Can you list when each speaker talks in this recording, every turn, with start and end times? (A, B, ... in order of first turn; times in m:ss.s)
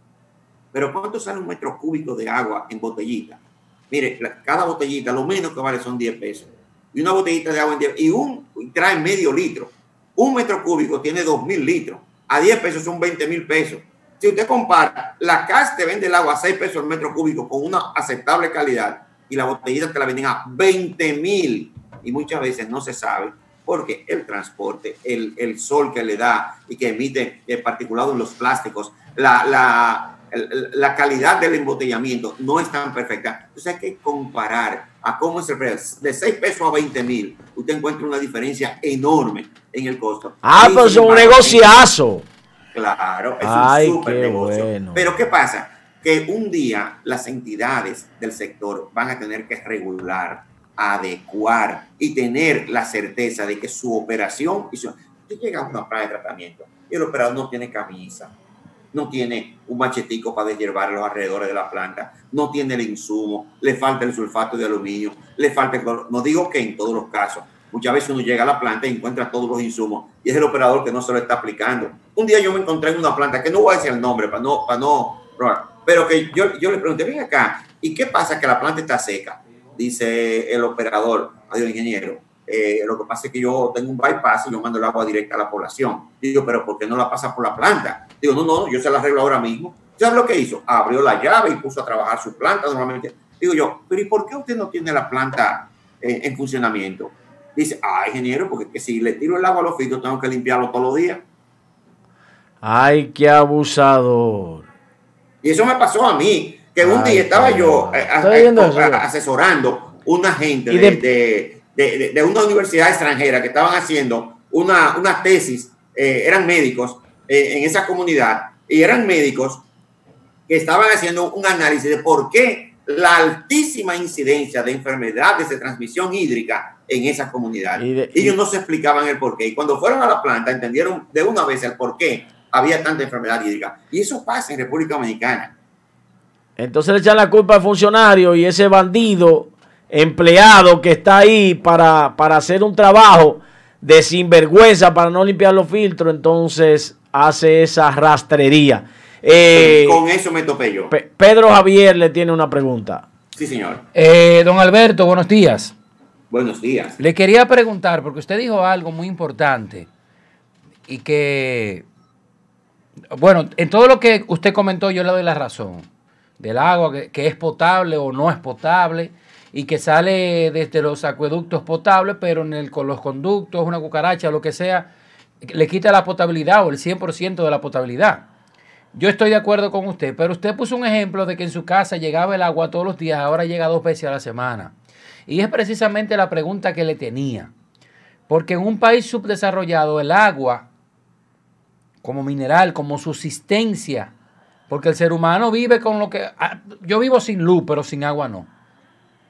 0:00.7-0:41.9 A
0:40.4-0:42.3 B
0:42.7-0:58.3 A
0:43.4-0:45.1 B
0:58.9-1:41.2 A
1:42.6-1:44.7 B
1:45.4-1:59.6 A
1:46.8-1:49.1 B
1:50.7-1:51.0 B
2:00.5-2:15.5 A
2:07.8-2:08.4 B
2:16.6-2:30.0 B
2:29.5-2:30.9 A
2:30.9-2:33.0 B
2:33.4-2:33.8 A
2:34.0-2:35.7 C
2:36.3-2:37.0 A
2:37.0-2:39.9 C
2:40.9-2:41.8 C
2:43.1-2:45.9 C
2:46.4-2:54.9 C
2:55.4-2:58.3 C
2:58.9-3:04.7 C
3:05.3-3:07.5 C
3:08.3-3:10.7 C
3:12.0-3:14.1 C
3:14.7-3:18.5 C